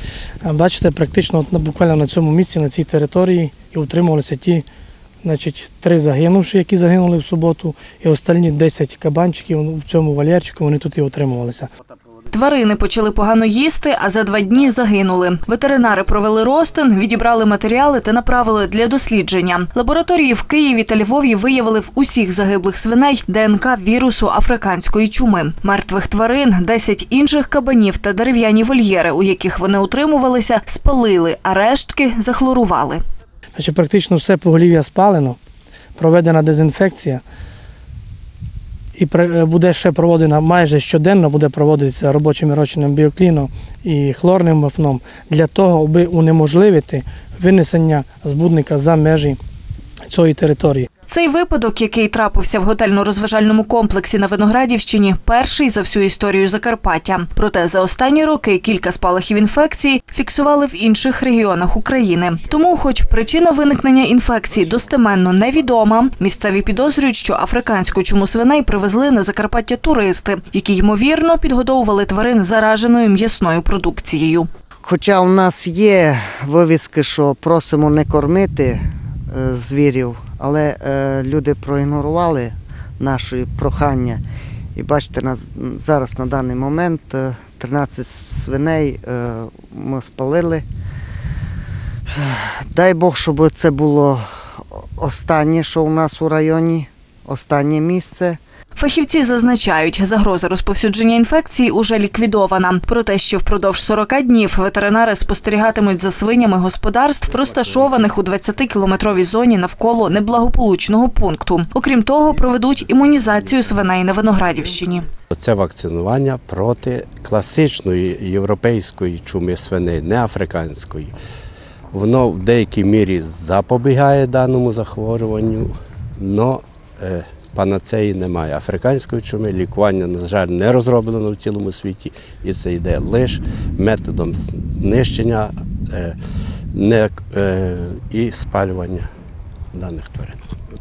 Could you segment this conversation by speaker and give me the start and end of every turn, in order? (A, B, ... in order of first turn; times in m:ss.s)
0:00.4-0:04.6 A
0:05.2-0:11.7 A
0:12.3-0:33.0 B
0:33.6-0:35.4 A
0:36.0-0:37.2 A
0:38.9-0:49.4 A
0:50.1-0:50.9 A
0:51.1-1:14.5 B
1:14.8-1:24.2 C
1:24.7-1:30.6 C
1:32.1-1:38.4 C
1:38.8-1:55.0 B
1:55.3-2:01.1 D
2:01.9-2:16.2 D
2:16.7-2:19.1 D
2:19.7-2:20.4 D